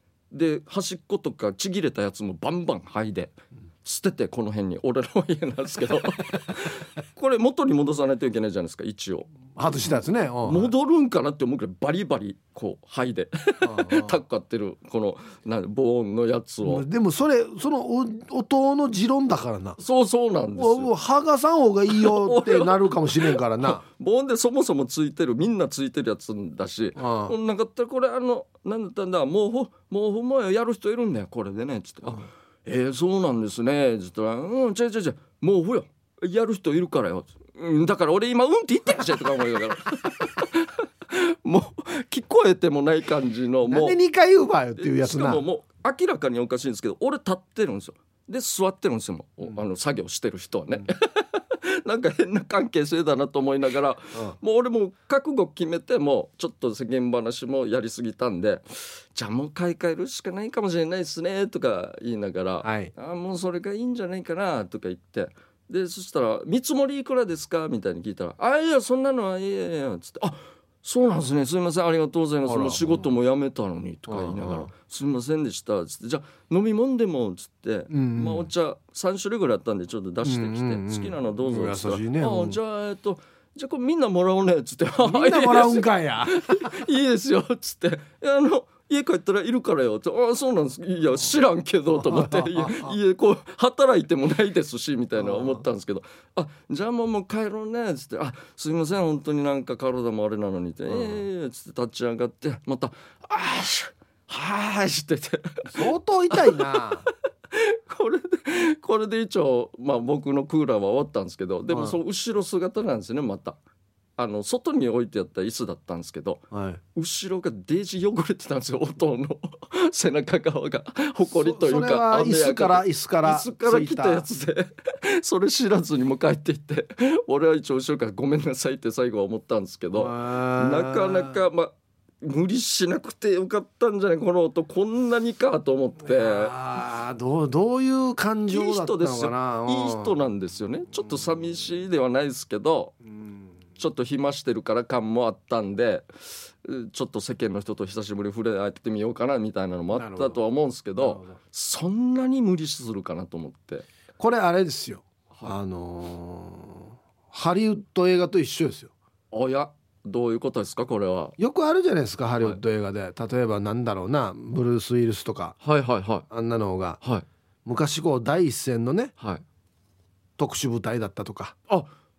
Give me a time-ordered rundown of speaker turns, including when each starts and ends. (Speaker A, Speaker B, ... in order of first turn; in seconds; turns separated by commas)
Speaker A: 0.3-9.3, Speaker B: 9.6-10.7, Speaker A: 10.4-16.9, Speaker B: 13.6-14.2, Speaker B: 16.6-19.8, Speaker A: 19.8-20.9, Speaker B: 20.6-23.8, Speaker A: 21.9-44.0, Speaker B: 27.0-27.4, Speaker B: 43.7-45.4, Speaker A: 44.8-106.9, Speaker B: 62.6-62.9, Speaker B: 72.5-73.0, Speaker B: 74.1-74.7, Speaker B: 77.9-78.5, Speaker B: 80.2-82.6, Speaker B: 85.0-86.7, Speaker B: 92.0-93.0, Speaker B: 95.2-95.6, Speaker B: 100.9-101.2, Speaker B: 105.7-107.1, Speaker A: 107.5-113.6, Speaker B: 111.7-112.0, Speaker A: 114.2-116.4, Speaker B: 116.5-116.8, Speaker A: 117.0-136.5, Speaker B: 121.4-124.3, Speaker B: 129.9-131.4, Speaker B: 136.0-140.2, Speaker A: 138.5-142.9, Speaker B: 143.1-143.4, Speaker A: 143.8-146.1, Speaker A: 146.6-153.9, Speaker B: 149.9-150.4, Speaker B: 151.0-151.4, Speaker B: 154.2-158.9, Speaker A: 159.3-161.4, Speaker B: 161.4-165.6, Speaker A: 165.6-166.3, Speaker B: 166.3-167.0, Speaker B: 167.7-169.1, Speaker B: 170.4-171.6